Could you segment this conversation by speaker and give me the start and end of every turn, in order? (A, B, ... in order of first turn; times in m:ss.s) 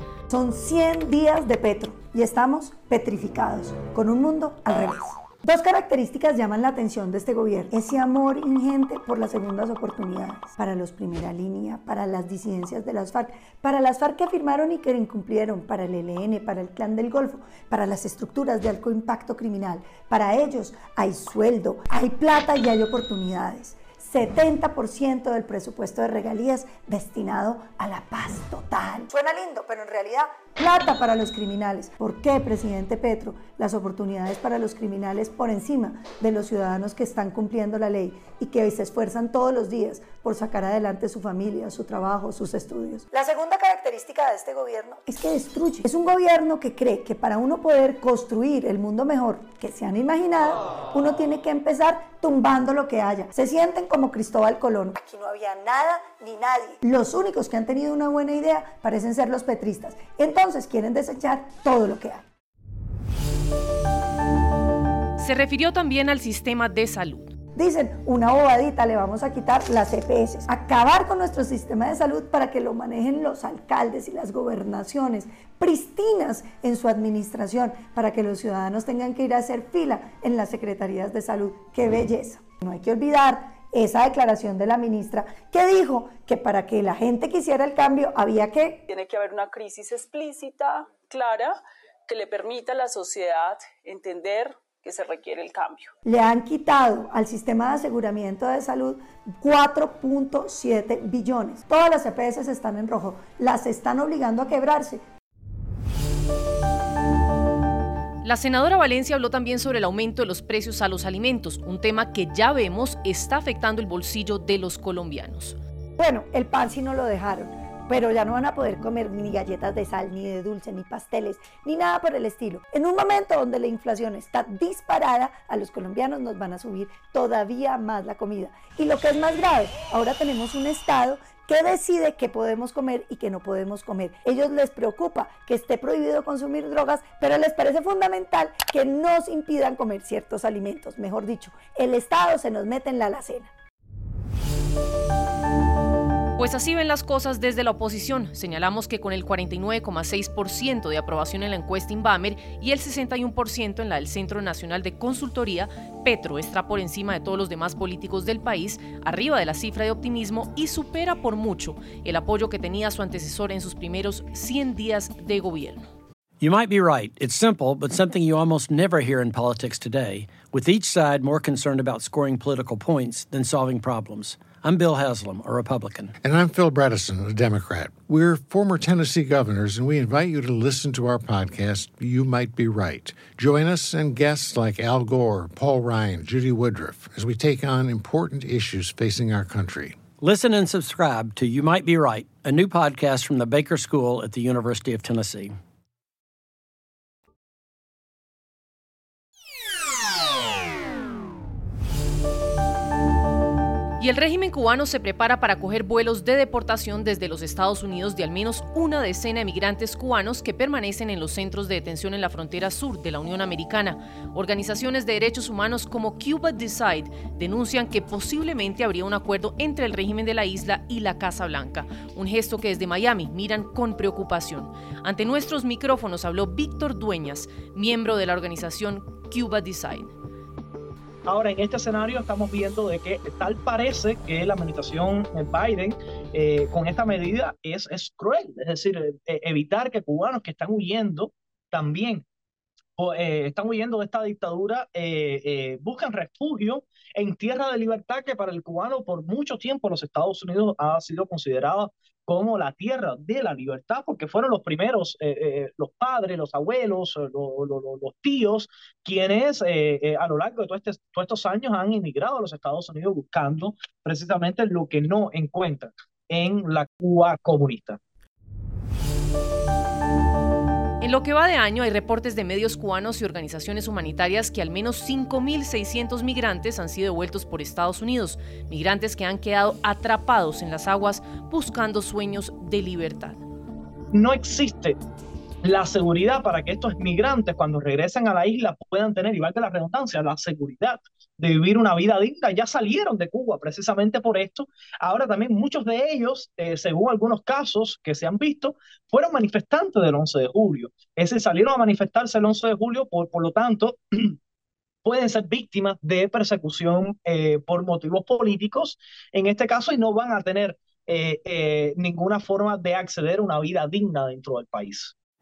0:00.3-1:02.2 A
1:05.2-1:07.3 B
1:07.6-1:28.8 A
1:28.9-1:35.9 C
1:36.0-1:45.0 A
1:48.2-1:55.6 B
1:56.0-2:23.5 A
2:26.4-2:45.9 B
2:46.4-2:56.1 D
2:56.2-3:10.0 E
3:10.2-3:15.5 D
3:24.0-3:50.1 B
3:51.2-4:02.2 F
4:03.0-4:28.0 F
4:31.0-4:43.4 B
4:44.1-4:45.0 F
4:45.6-5:04.4 F
5:05.0-5:15.1 F